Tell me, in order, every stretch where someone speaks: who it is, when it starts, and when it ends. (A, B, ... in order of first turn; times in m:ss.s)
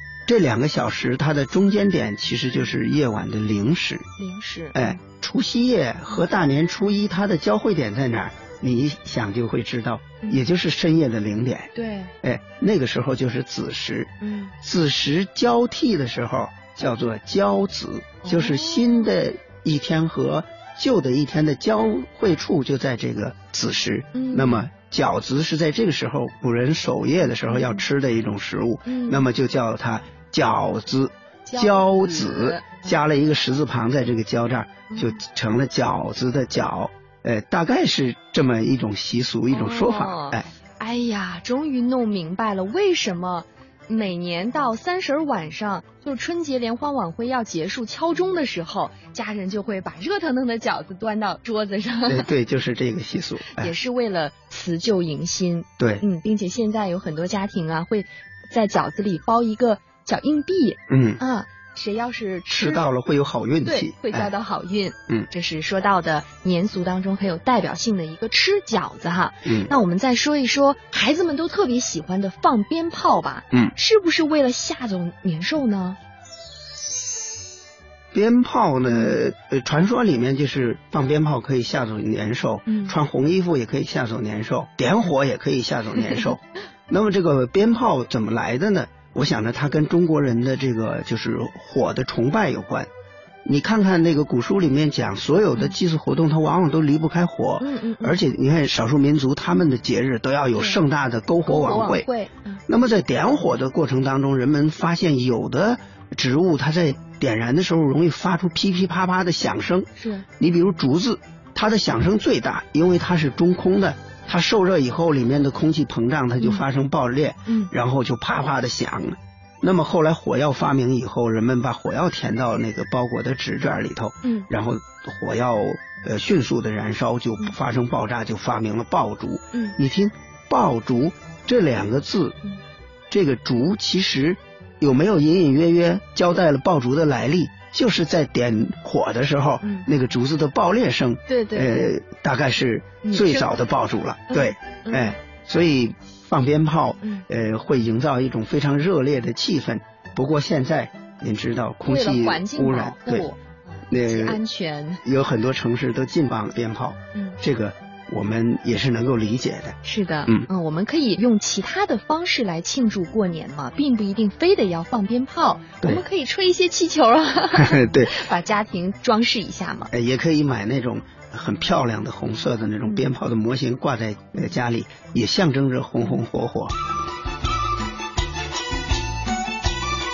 0:00.3-0:04.0 A
0:04.2-0:05.0 B
0:04.7-0:40.5 A
0:11.7-0:12.1 B
0:14.2-0:14.5 B
0:18.2-0:19.1 B
0:24.1-0:24.7 B
0:27.4-0:27.8 B
0:28.8-0:29.3 B
0:31.4-0:32.8 B
0:34.9-0:35.2 B
0:39.5-0:52.3 B
0:52.1-0:53.7 A
0:53.5-1:02.8 B
0:55.8-0:56.0 A
1:00.9-1:01.2 A
1:02.5-1:04.3 A
1:03.6-1:16.0 B
1:09.4-1:09.7 A
1:18.1-1:32.9 A
1:18.9-1:19.2 B
1:22.7-1:22.9 B
1:26.0-1:26.3 B
1:33.4-1:42.1 A
1:37.6-1:38.2 B
1:40.5-1:40.8 B
1:41.4-1:42.6 B
1:42.7-1:49.9 A
1:50.0-1:50.2 B
1:50.4-2:12.4 A
1:57.5-1:57.7 B
2:13.1-2:33.3 A
2:19.6-2:19.9 B
2:21.3-2:21.8 B
2:23.0-2:23.5 B
2:24.3-2:25.2 B
2:31.8-2:35.0 B
2:33.9-2:34.4 A
2:35.0-2:40.5 A
2:37.1-2:37.4 B
2:39.8-2:49.9 B
2:47.5-2:48.2 A
2:49.9-2:56.7 A
2:52.8-2:53.1 B